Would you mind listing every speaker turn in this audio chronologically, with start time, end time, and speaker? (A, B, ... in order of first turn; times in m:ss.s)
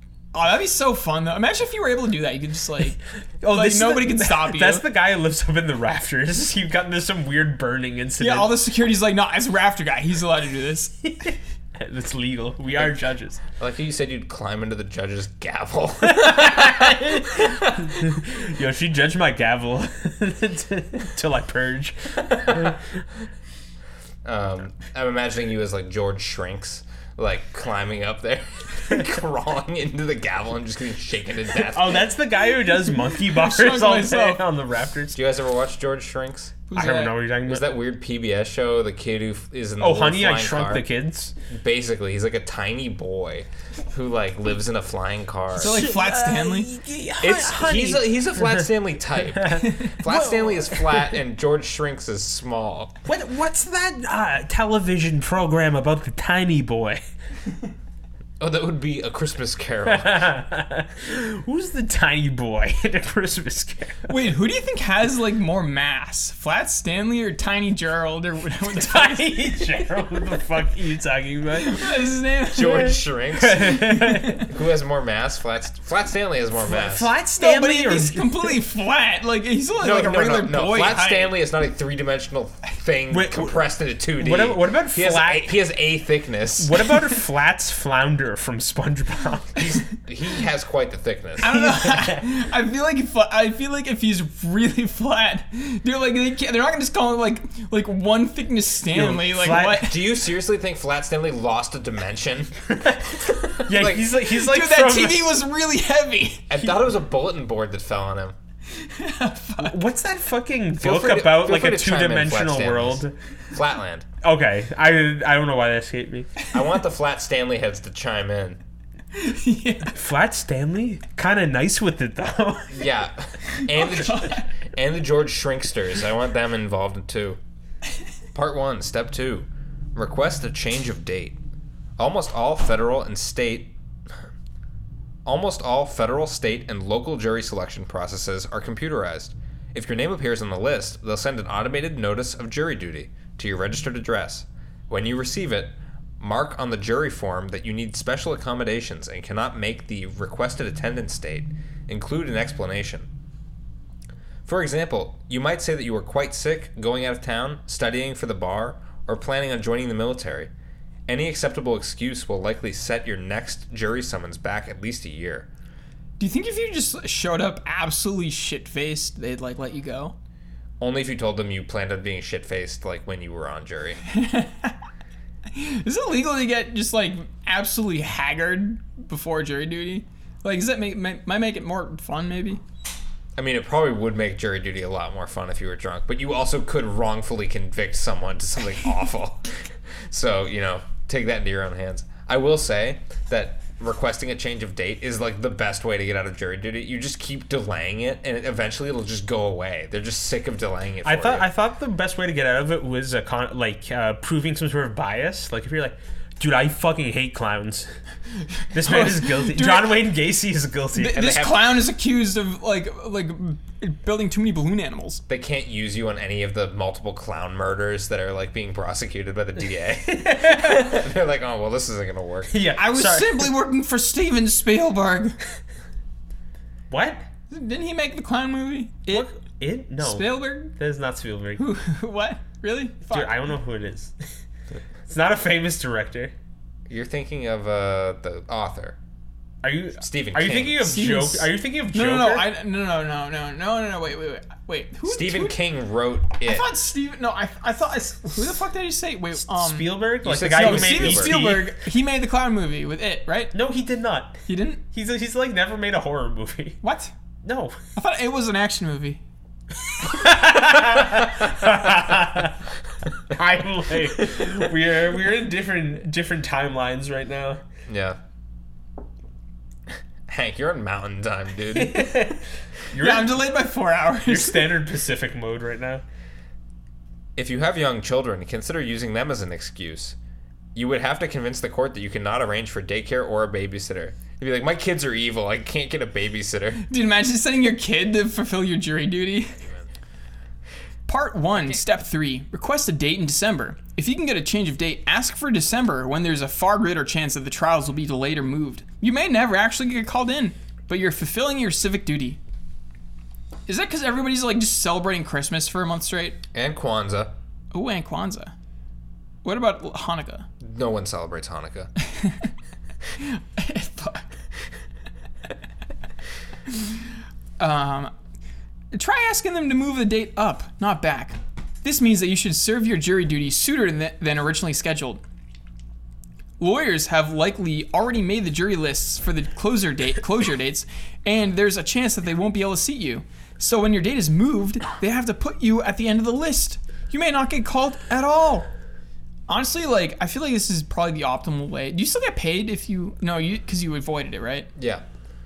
0:00.3-0:04.8 A
0:03.4-0:08.6 B
0:08.2-0:11.0 A
0:11.0-0:13.4 B
0:13.6-0:18.0 C
0:16.1-0:22.9 B
0:22.3-0:22.8 C
0:24.2-0:32.0 C
0:31.7-0:35.2 B
0:33.1-0:34.4 A
0:35.2-0:36.6 C
0:36.7-0:37.2 A
0:36.8-0:37.7 B
0:37.4-0:40.9 C
0:39.8-0:41.3 B
0:41.5-0:45.8 C
0:45.6-0:46.7 A
0:45.6-0:48.6 B
0:47.2-0:53.0 C
0:49.3-0:51.2 B
0:49.6-0:50.0 A
0:53.0-0:57.0 B
0:58.4-1:00.2 C
0:59.9-1:04.1 B
1:04.1-1:09.4 A
1:08.7-1:14.4 B
1:11.6-1:13.0 A
1:12.5-1:17.1 C
1:13.8-1:14.5 A
1:16.7-1:18.6 B
1:17.4-1:21.4 A
1:19.8-1:26.9 C
1:23.1-1:23.6 B
1:24.2-1:25.6 B
1:26.6-1:29.7 B
1:29.6-1:31.5 C
1:31.4-1:40.0 A
1:31.4-1:32.2 B
1:38.9-1:40.0 B
1:39.8-1:44.1 C
1:42.8-1:45.4 B
1:44.2-1:46.6 A
1:46.5-1:48.4 C
1:48.7-1:49.8 A
1:49.6-1:53.1 B
1:50.8-1:54.1 C
1:54.2-1:56.3 B
1:56.5-1:58.6 C
1:59.2-2:00.0 A
1:59.9-2:02.8 B
2:02.7-2:07.4 C
2:03.6-2:04.5 A
2:08.3-2:11.4 C
2:12.0-2:13.8 C
2:15.2-2:33.1 C
2:34.5-2:40.5 C
2:41.1-2:45.5 C
2:46.2-2:50.2 A
2:50.8-2:54.0 C
2:54.1-2:54.8 A
2:55.5-3:02.6 A
3:03.4-3:21.5 C
3:21.0-3:27.9 B
3:28.7-3:31.2 B
3:28.8-3:30.1 A
3:31.0-3:35.2 A
3:31.1-3:31.7 C
3:35.3-3:42.6 C
3:40.1-3:41.0 B
3:42.5-3:43.5 B
3:42.8-3:45.4 A
3:46.9-3:47.2 B
3:47.5-3:49.3 A
3:49.1-3:51.6 B
3:50.0-3:50.7 A
3:51.6-3:53.3 A
3:53.1-3:54.2 B
3:55.1-3:56.3 B
3:56.9-3:59.0 C
3:59.6-4:02.5 B
4:00.0-4:00.8 C
4:00.8-4:05.6 A
4:05.1-4:06.7 C
4:06.4-4:10.0 A
4:09.5-4:11.7 B
4:10.2-4:11.3 C
4:10.6-4:13.5 A
4:13.5-4:16.8 B
4:14.5-4:14.8 A
4:16.8-4:17.1 A
4:17.4-4:17.8 B
4:18.0-4:19.2 A
4:19.9-4:22.6 B
4:23.3-4:27.6 B
4:27.9-4:28.2 C
4:30.3-4:32.2 C
4:31.8-4:33.4 B
4:33.0-4:34.7 A
4:34.2-4:36.0 B
4:37.4-4:40.2 C
4:40.8-4:46.8 C
4:46.8-4:49.6 A
4:51.1-5:02.4 A
5:03.7-5:06.4 A
5:06.5-5:07.3 C
5:07.7-5:08.5 A
5:09.4-5:10.5 A
5:10.6-5:11.9 C
5:12.1-5:12.5 A
5:13.2-5:14.3 A
5:17.6-5:18.1 A
5:18.9-5:25.2 A
5:26.6-5:38.7 A
5:39.5-5:44.7 A
5:44.8-5:45.0 C